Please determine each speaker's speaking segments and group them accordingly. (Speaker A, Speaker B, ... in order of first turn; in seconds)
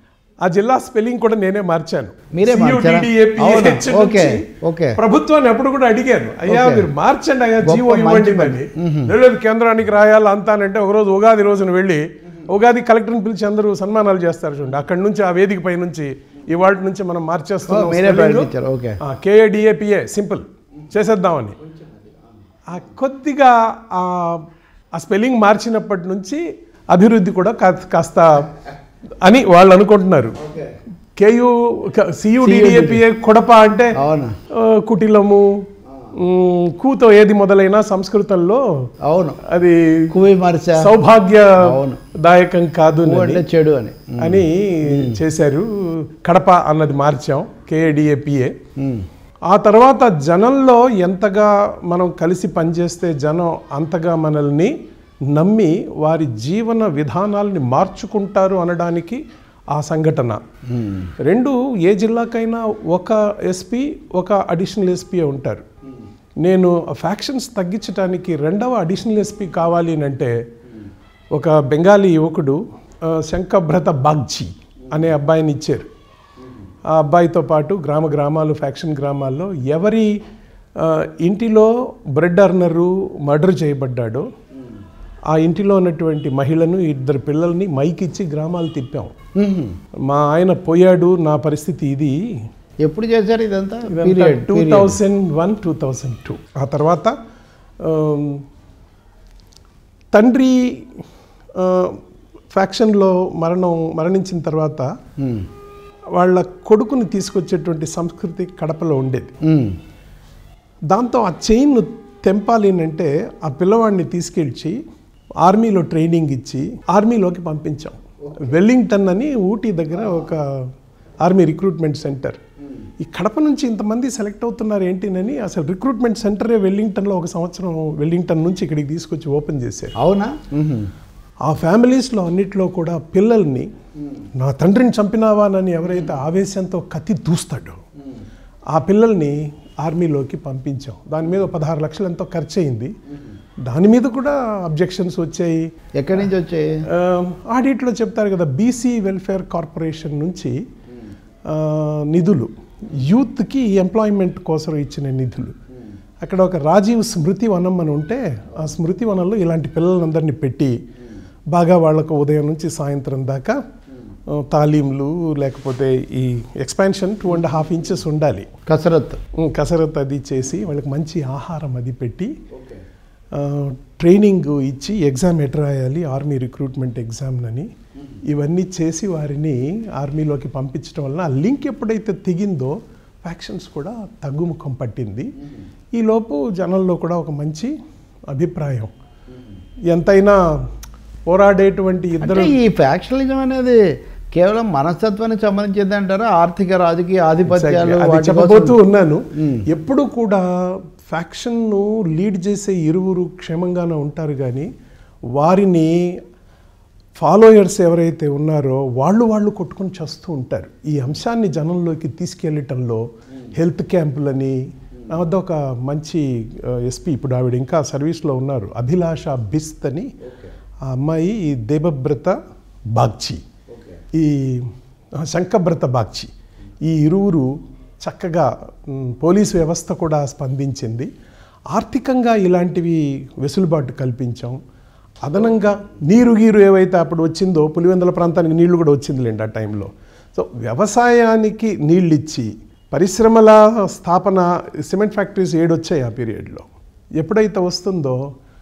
Speaker A: 0.4-21.6, 22.7-28.7, 29.2-30.4, 31.2-34.0, 34.5-35.6, 36.1-38.6, 39.4-40.1, 40.8-43.4, 44.2-48.5, 49.5-54.7, 55.3-60.4, 61.3-65.7, 66.4-70.3, 71.3-75.9, 76.9-80.1, 80.8-84.3, 85.3-89.1, 90.1-92.2, 93.9-97.1, 97.8-98.5, 100.1-100.9, 101.6-102.0, 102.5-104.9, 106.1-109.3, 110.9-114.8, 115.4-122.4, 123.0-129.9, 131.4-133.7, 134.3-137.8, 138.7-142.9, 143.6-145.7, 146.9-150.6, 151.5-155.5, 156.2-160.8, 161.5-163.6, 164.3-168.5, 169.4-172.3, 173.3-177.7, 178.3-185.3, 185.9-187.7, 188.3-188.9, 189.9-190.5, 191.3-192.6, 197.5-204.7, 205.3-206.0, 207.2-220.1, 220.8-222.4, 222.9-223.4, 224.1-226.3, 226.8-231.1, 231.7-234.6, 235.2-246.7, 247.2-248.2
Speaker B: 2.3-5.0, 6.5-6.9, 7.6-9.1, 17.7-19.0, 30.5-30.7, 32.4-33.0, 34.0-34.3, 39.0-39.4, 40.1-40.9, 41.6-42.0, 43.0-45.1, 48.8-49.0, 89.3-89.8, 92.8-95.0, 105.2-105.5, 109.4-109.8, 130.0-130.9, 146.0-146.8, 168.7-169.2, 192.2-193.8, 194.3-198.8, 199.4-199.6